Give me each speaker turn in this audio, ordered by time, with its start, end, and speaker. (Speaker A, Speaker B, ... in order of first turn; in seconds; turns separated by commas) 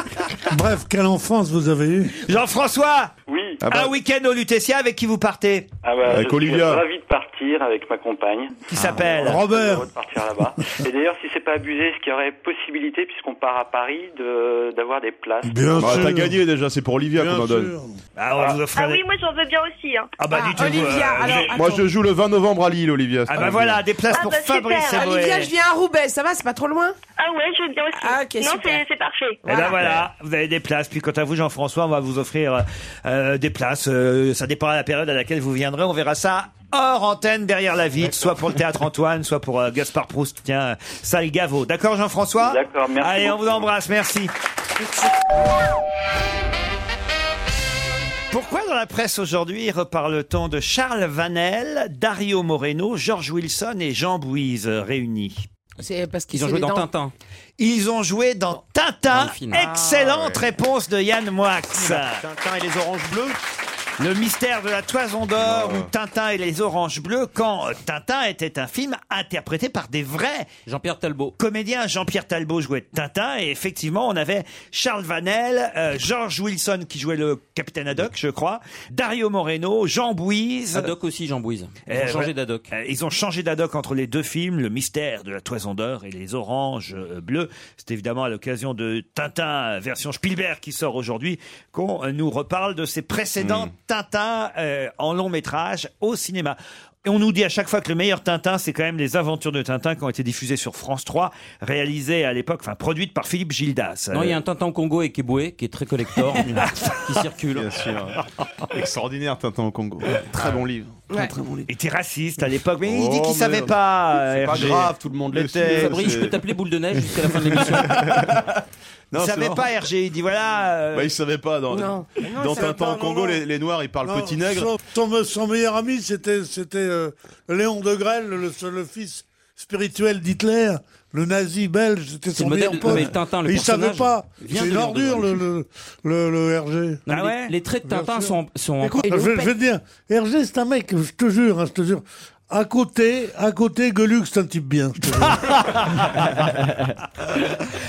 Speaker A: 0.5-2.2, Speaker B: 2.2-3.1, Speaker C: 3.3-3.6, Speaker D: 3.6-3.9, Speaker B: 3.7-5.7, Speaker C: 5.8-15.7, Speaker D: 6.0-6.8, Speaker B: 8.7-9.5, Speaker A: 9.0-9.9, Speaker A: 15.4-16.4, Speaker D: 15.8-17.7, Speaker A: 17.1-18.0, Speaker B: 18.2-19.0, Speaker E: 18.7-20.1, Speaker B: 20.2-21.5, Speaker F: 20.3-21.9, Speaker D: 21.5-23.8, Speaker B: 23.3-25.5, Speaker E: 24.1-25.1, Speaker F: 24.9-26.9, Speaker E: 27.2-29.4, Speaker F: 27.9-28.8, Speaker F: 29.4-30.0, Speaker B: 29.5-44.3, Speaker C: 42.4-43.7, Speaker B: 48.3-55.5, Speaker F: 55.8-56.9, Speaker G: 56.3-57.1, Speaker B: 57.6-62.2, Speaker G: 59.1-59.6, Speaker H: 59.5-60.5, Speaker H: 61.7-63.4, Speaker B: 64.0-70.5, Speaker D: 65.4-65.9, Speaker G: 70.7-71.3, Speaker B: 71.4-80.9, Speaker G: 80.7-82.7, Speaker B: 81.9-104.4, Speaker H: 93.4-93.7, Speaker G: 104.1-107.7, Speaker D: 107.5-108.2, Speaker D: 108.7-111.7, Speaker B: 111.7-114.9, Speaker D: 112.8-113.7, Speaker H: 114.3-116.2, Speaker D: 114.5-116.4, Speaker G: 115.7-118.1, Speaker D: 117.5-118.4, Speaker D: 119.1-119.7, Speaker B: 119.1-121.1, Speaker D: 120.9-124.7, Speaker F: 121.7-123.0, Speaker A: 122.6-123.4, Speaker A: 124.0-137.0, Speaker G: 132.3-135.3, Speaker G: 137.1-139.1, Speaker B: 137.1-137.5, Speaker A: 137.8-145.8, Speaker F: 139.1-139.5, Speaker B: 145.3-146.3